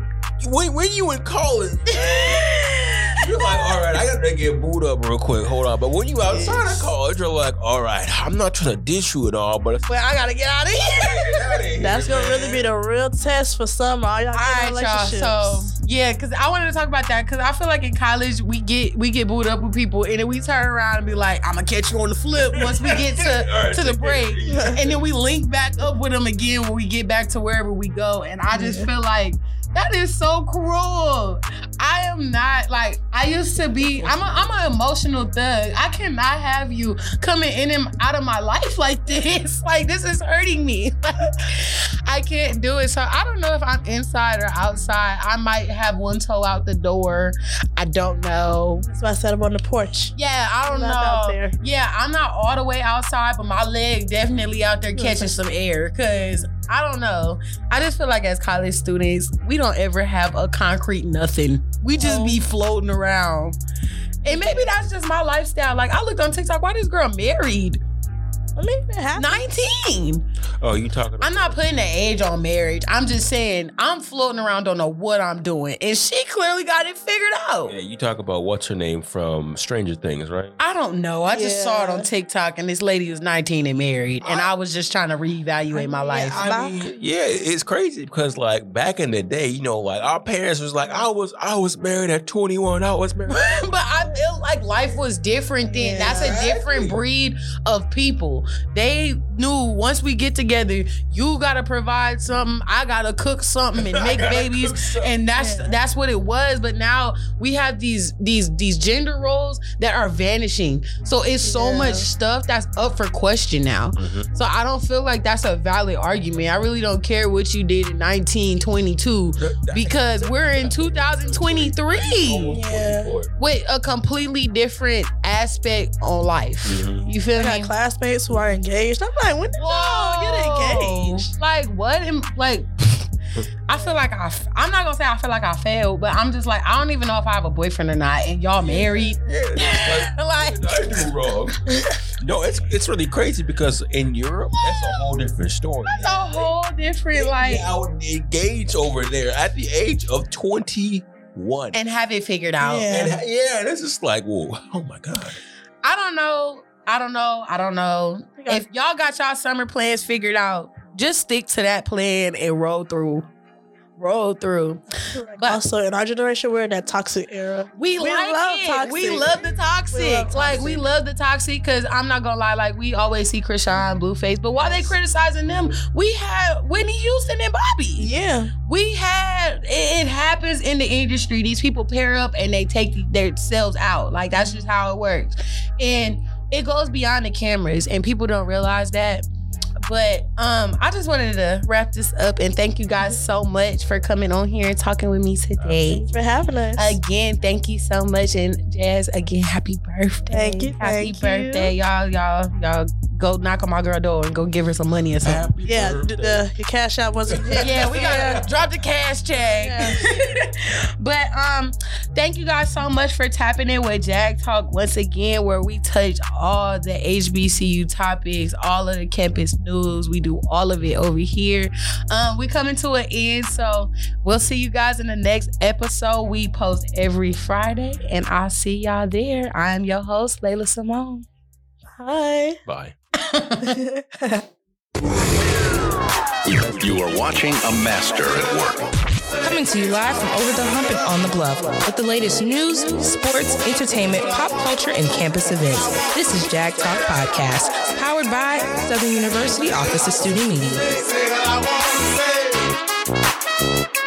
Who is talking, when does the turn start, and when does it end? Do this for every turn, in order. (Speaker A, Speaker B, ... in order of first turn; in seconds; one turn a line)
Speaker A: 0.4-2.5
Speaker B: 1.9-3.6
Speaker A: 3.2-9.9
Speaker C: 6.2-6.9
Speaker B: 9.9-11.6
Speaker A: 11.0-12.7
Speaker C: 11.8-15.6
Speaker B: 14.3-48.9
Speaker A: 22.4-25.0
Speaker C: 24.5-24.7
Speaker C: 28.5-28.9
Speaker A: 33.8-34.5
Speaker C: 48.8-50.1
Speaker B: 50.1-63.6
Speaker C: 50.6-51.5
Speaker C: 54.9-55.3
Speaker C: 62.0-62.4
Speaker B: 64.2-67.8
Speaker C: 64.2-64.8
Speaker C: 68.5-69.5
Speaker B: 69.2-70.2
Speaker A: 70.6-71.6
Speaker B: 71.2-77.7
Speaker A: 77.7-80.5
Speaker B: 80.6-86.4
Speaker C: 81.3-82.1
Speaker C: 85.7-86.8
Speaker A: 86.3-93.7
Speaker B: 93.3-122.6
Speaker C: 95.6-96.4
Speaker A: 96.0-97.0
Speaker A: 103.8-105.2
Speaker C: 105.3-105.7
Speaker C: 111.4-112.1
Speaker A: 114.0-114.3
Speaker A: 119.4-123.3
Speaker C: 122.5-123.1
Speaker B: 123.4-127.7
Speaker A: 126.6-127.1
Speaker C: 127.3-131.3
Speaker B: 129.6-133.1
Speaker B: 133.7-141.1
Speaker A: 138.6-141.6
Speaker A: 142.2-146.5
Speaker B: 145.9-147.7
Speaker A: 147.1-151.8
Speaker B: 151.7-152.9
Speaker C: 152.6-153.1
Speaker A: 152.9-155.4
Speaker B: 155.8-163.2
Speaker C: 158.4-158.6
Speaker B: 164.0-164.8
Speaker C: 165.1-170.8
Speaker B: 167.7-178.1
Speaker C: 174.6-174.9
Speaker C: 178.0-178.5
Speaker B: 178.7-189.2
Speaker B: 189.8-196.1
Speaker A: 195.6-196.0
Speaker C: 195.9-197.0
Speaker B: 196.8-205.5
Speaker C: 200.3-201.7
Speaker A: 205.2-206.4
Speaker C: 205.6-208.4
Speaker A: 207.3-208.4
Speaker B: 207.6-231.2
Speaker C: 209.4-210.1
Speaker C: 232.0-232.6
Speaker A: 232.6-232.9
Speaker B: 233.3-233.7
Speaker C: 233.6-234.4
Speaker D: 236.4-238.9
Speaker E: 239.4-250.8